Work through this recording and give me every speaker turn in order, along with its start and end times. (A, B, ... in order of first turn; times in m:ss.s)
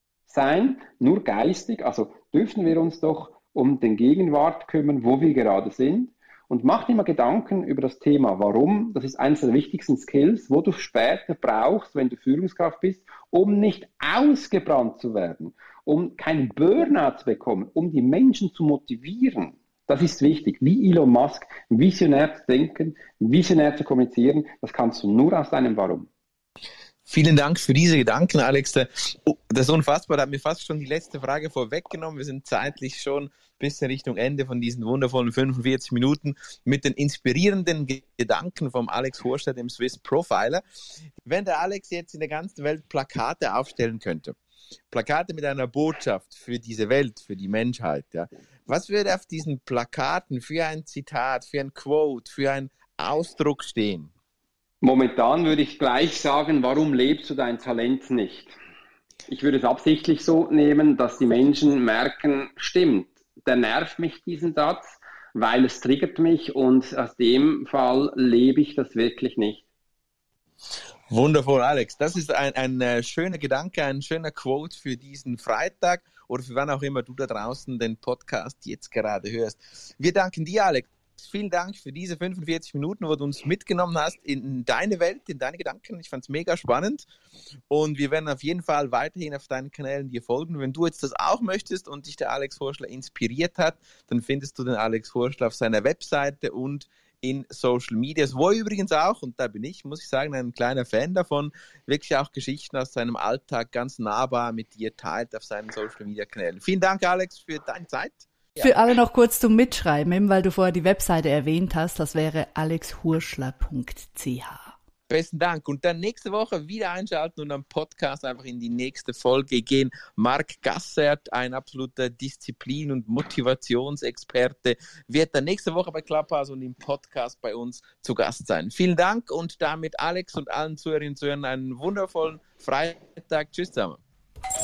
0:00.3-0:26.1 A
0:27.1-0:40.6 B
0:41.2-0:44.3 B
0:44.9-0:54.1 B
0:54.8-0:58.5 A
0:59.3-1:09.6 A
1:11.1-1:27.0 B
1:27.7-1:48.7 B
1:48.6-1:54.7 C
1:55.1-2:14.0 B